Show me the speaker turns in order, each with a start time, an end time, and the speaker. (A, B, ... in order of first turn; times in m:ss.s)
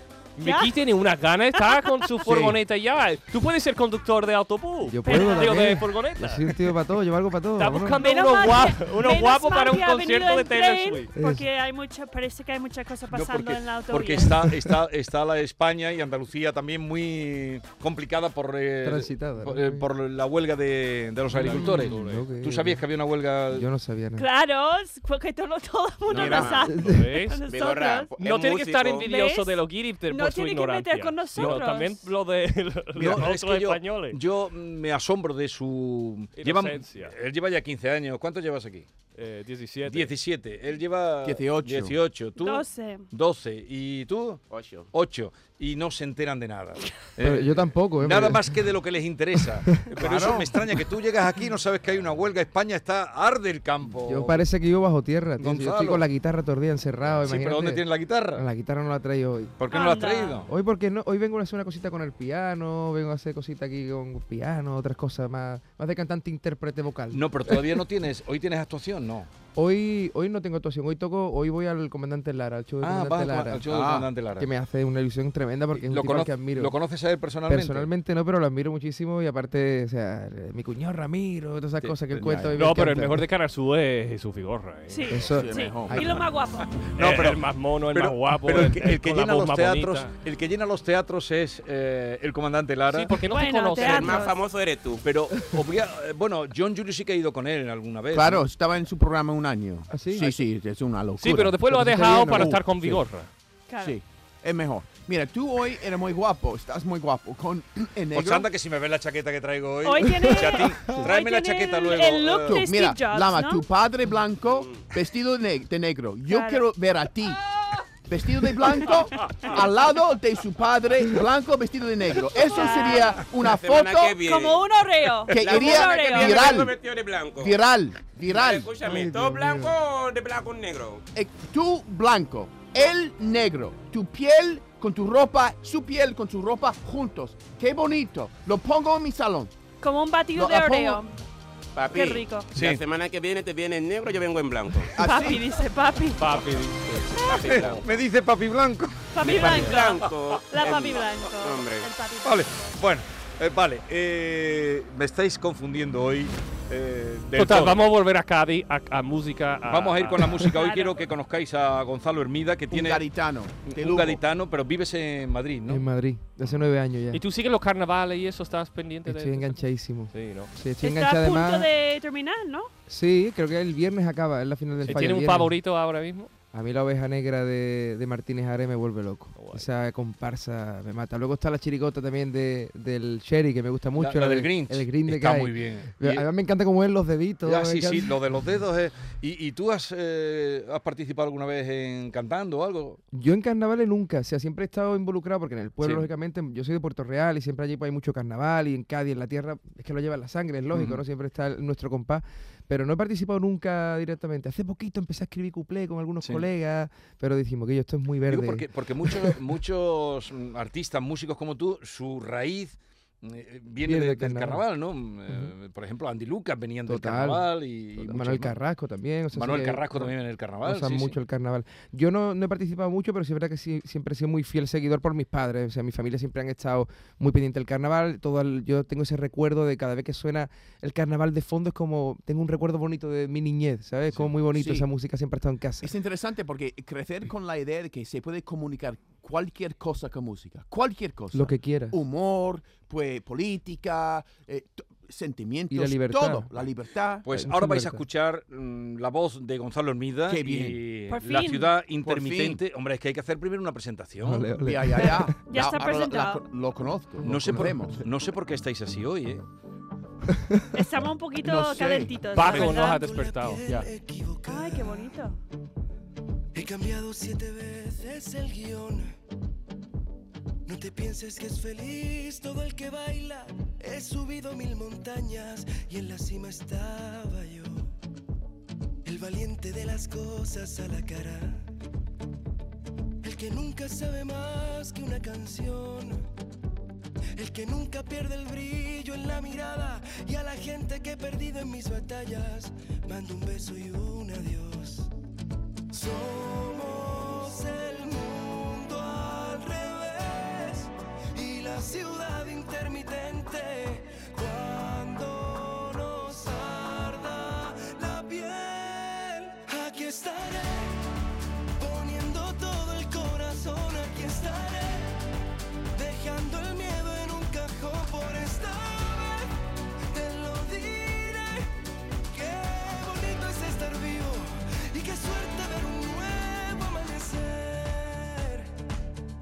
0:00.4-0:06.5 A
0:00.4-0:00.7 B
0:01.6-0:02.3 B
0:02.3-0:02.6 C
0:04.9-0:08.0 D
0:05.1-0:05.6 B
0:07.6-0:11.1 A
0:08.0-0:14.5 B
0:11.2-0:11.5 D
0:13.1-0:23.7 E
0:18.8-0:19.9 D
0:21.3-0:22.3 A
0:21.3-0:22.8 D
0:23.5-0:24.3 D
0:24.2-0:28.1 B
0:26.1-0:26.7 F
0:26.1-0:27.4 A
0:26.1-0:26.6 C
0:26.7-0:27.1 D
0:27.4-0:29.1 F
0:28.2-0:34.2 A
0:29.0-0:32.1 B
0:33.0-0:38.9 E
0:36.4-0:37.2 A
0:39.2-0:40.1 A
0:39.8-0:44.4 E
0:41.2-0:42.0 C
0:42.4-0:43.0 B
0:44.5-0:44.9 F
0:44.9-0:54.5 E
0:47.2-0:48.7 D
0:49.4-0:49.9 D
0:50.0-0:50.5 C
0:54.0-0:59.6 D
0:55.4-0:56.1 E
0:57.0-0:58.5 E
0:59.6-1:00.5 E
0:59.7-1:00.5 B
1:00.5-1:07.8 D
1:07.1-1:09.3 E
1:09.6-1:13.7 D
1:12.8-1:14.5 E
1:13.7-1:14.1 C
1:14.4-1:16.7 D
1:15.7-1:17.9 E
1:17.5-1:23.2 D
1:22.1-1:22.5 C
1:22.6-1:25.2 A
1:24.9-1:26.9 B
1:25.1-1:26.2 D
1:25.2-1:26.2 C
1:27.0-1:33.2 E
1:27.0-1:30.1 A
1:32.9-1:34.3 A
1:33.2-1:34.4 B
1:33.8-1:35.0 F
1:35.0-1:38.4 E
1:38.1-1:43.0 C
1:39.9-1:40.3 D
1:41.2-1:43.3 A
1:41.7-1:42.6 D
1:43.7-1:44.0 B
1:43.8-1:48.5 C
1:48.1-1:52.6 E
1:49.8-1:53.6 B
1:50.8-1:51.1 C
1:52.4-1:57.4 C
1:54.5-1:54.9 F
1:56.3-1:56.6 B
1:58.1-2:04.2 C
2:02.4-2:03.3 B
2:03.3-2:04.7 F
2:04.2-2:06.6 B
2:05.3-2:06.8 C
2:05.4-2:07.6 F
2:07.4-2:08.7 C
2:08.3-2:11.0 F
2:08.8-2:09.7 D
2:11.1-2:19.5 C
2:19.8-2:21.1 B
2:20.4-2:21.0 C
2:21.8-2:24.9 F
2:21.9-2:22.5 B
2:22.5-2:22.8 E
2:25.0-2:25.4 C
2:25.0-2:26.4 B
2:26.2-2:27.8 A
2:27.2-2:27.9 F
2:27.2-2:29.8 E
2:29.1-2:32.8 B
2:29.3-2:30.4 A
2:29.3-2:31.9 F
2:32.2-2:37.9 E
2:37.4-2:40.5 A
2:39.7-2:43.0 E
2:40.4-2:41.0 B
2:42.7-2:44.2 C
2:43.6-2:45.9 E
2:45.7-2:47.2 D
2:47.1-2:50.5 A
2:49.0-2:51.7 D
2:50.8-2:52.7 B
2:52.9-2:55.6 D
2:54.9-2:56.3 A
2:56.5-3:08.2 D
2:59.4-2:59.7 A
3:04.0-3:06.3 E
3:07.4-3:13.0 E
3:13.1-3:29.4 D
3:15.8-3:16.1 E
3:20.7-3:21.0 E
3:26.2-3:26.5 E
3:28.3-3:38.6 E
3:33.8-3:34.6 D
3:36.9-3:55.9 D
3:39.3-3:41.2 E
3:54.4-3:54.9 C
3:55.8-4:07.3 C
4:01.3-4:02.0 D
4:05.7-4:06.5 D
4:07.2-4:14.5 E
4:07.3-4:08.0 D
4:10.3-4:10.8 C
4:11.1-4:11.7 B
4:12.0-4:12.6 C
4:14.2-4:15.4 D
4:14.6-4:18.0 C
4:15.0-4:16.4 B
4:17.2-4:19.4 E
4:17.4-4:17.7 D
4:20.7-4:23.1 B
4:21.4-4:22.9 C
4:22.3-4:23.7 A
4:22.4-4:25.1 G
4:23.6-4:23.9 C
4:24.5-4:25.4 B
4:26.6-4:29.1 G
4:30.7-4:37.9 G
4:39.0-4:41.6 G
4:43.2-4:46.2 G
4:47.4-4:55.1 G
4:55.9-5:10.9 G
5:11.8-5:15.1 G
5:16.0-5:19.5 G
5:20.1-5:21.7 G
5:22.3-5:28.6 G